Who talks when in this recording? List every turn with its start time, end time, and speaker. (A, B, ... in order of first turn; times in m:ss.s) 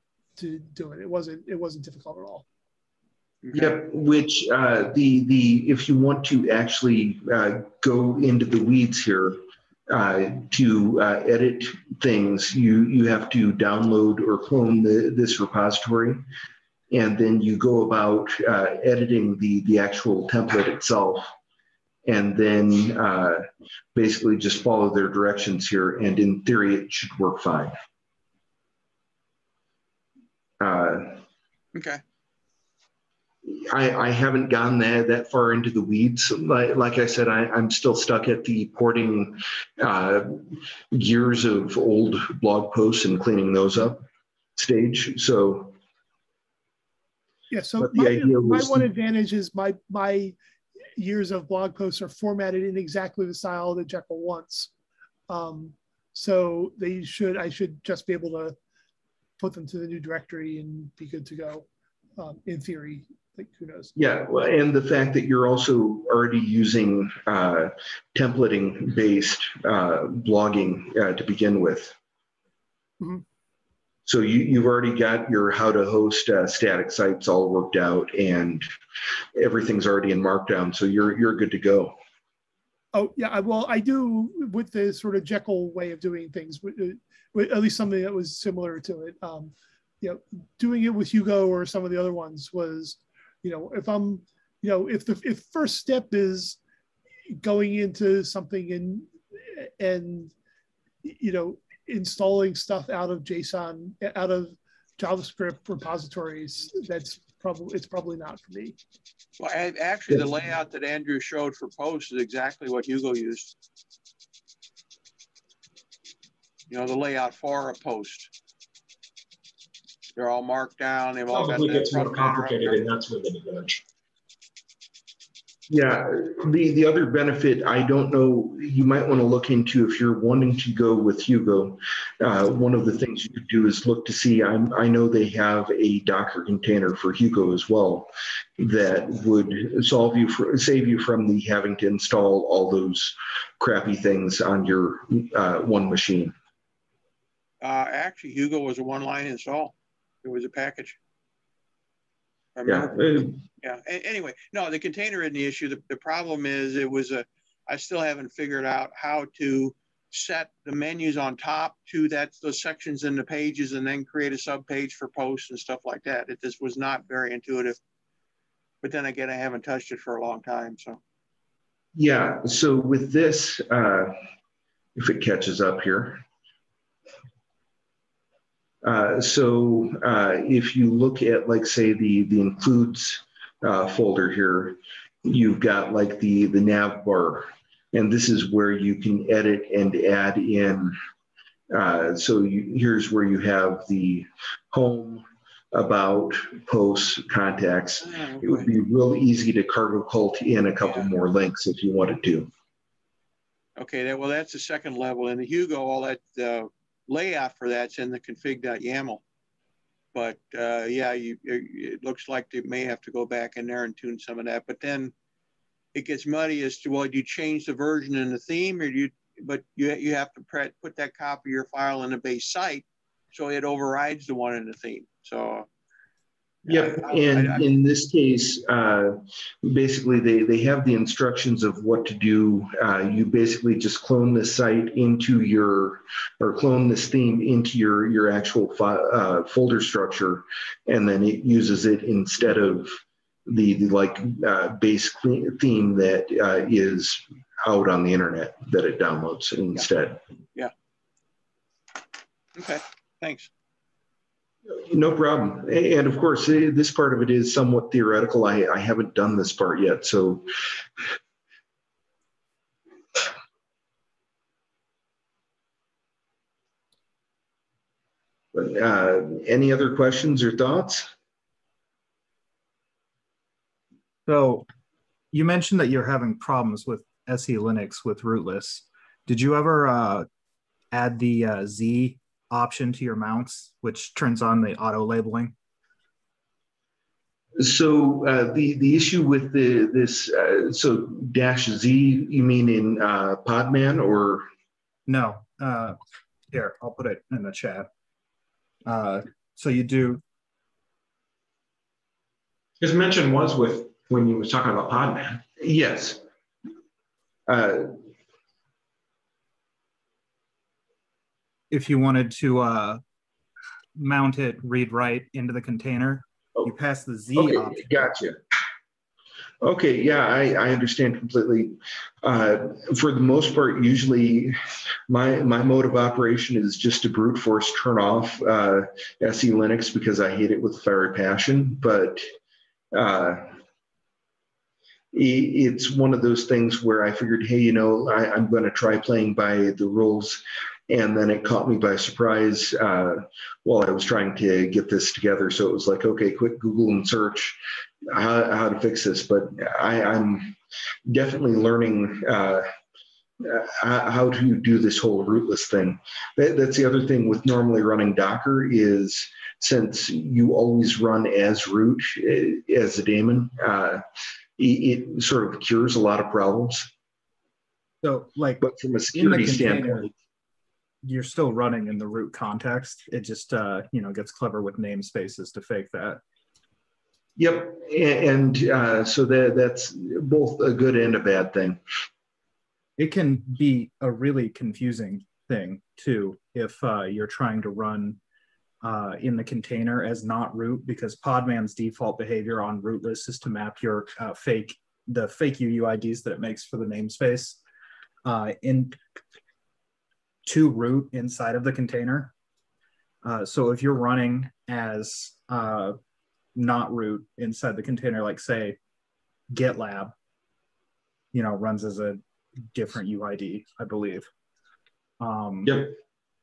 0:00.4-0:02.4 A
0:03.4-0:03.8 B
0:03.5-0:16.2 C
0:16.9-0:21.3 C
0:22.1-0:27.8 C
0:30.6-0:31.2 C
0:31.8-0:32.0 B
0:33.5-0:44.0 C
0:44.6-0:45.8 C
0:47.5-0:50.4 A
0:47.8-0:48.9 C
0:51.0-0:54.7 A
0:55.3-0:58.6 A
0:59.4-1:01.7 A
1:02.2-1:03.9 A
1:04.0-1:12.0 C
1:14.1-1:18.7 C
1:19.4-1:22.0 C
1:22.9-1:36.6 A
1:37.3-1:40.3 A
1:41.0-1:48.8 A
1:49.4-1:53.5 B
1:56.7-1:58.3 B
2:00.2-2:02.8 B
2:01.3-2:03.8 D
2:05.7-2:26.3 C
2:27.6-2:31.0 B
2:32.6-2:33.1 B
2:32.7-2:33.4 C
2:33.6-2:47.8 B
2:48.8-2:51.0 B
2:52.0-2:54.1 C
2:55.0-2:56.2 C
2:58.8-3:11.0 C
3:11.7-3:22.5 C
3:18.0-3:18.7 B
3:23.8-3:29.2 B
3:30.1-3:35.1 B
3:35.9-3:45.7 B
3:46.6-3:47.7 B
3:46.7-4:10.2 C
4:12.6-4:13.5 B
4:14.7-4:20.5 C
4:28.5-4:31.1 C
4:34.3-4:34.7 E
4:35.3-4:40.3 E
4:40.9-4:45.5 E
4:47.6-4:54.5 C
4:55.1-4:56.0 E
4:56.5-4:57.9 E
4:58.9-5:00.2 E
5:02.8-5:05.4 D
5:05.6-5:06.2 C
5:07.5-5:07.9 C
5:11.7-5:13.0 E
5:14.0-5:18.1 E
5:17.4-5:18.4 C
5:19.6-5:24.6 C
5:25.1-5:32.3 C
5:32.9-5:33.6 C
5:35.1-5:50.6 C
5:51.1-5:52.7 C
5:53.4-6:04.0 C
6:04.6-6:06.9 C
6:08.0-6:10.1 E
6:08.6-6:10.1 C
6:11.0-6:16.2 E
6:17.4-6:21.8 C
6:23.0-6:28.2 E
6:28.8-6:37.6 E
6:38.2-6:39.0 E
6:40.5-6:42.3 E
6:43.2-6:46.0 E
6:46.6-6:48.8 E
6:49.5-6:50.1 E
6:51.3-6:52.2 E
6:52.7-6:54.3 E
6:55.2-6:55.9 E
6:55.7-6:55.9 D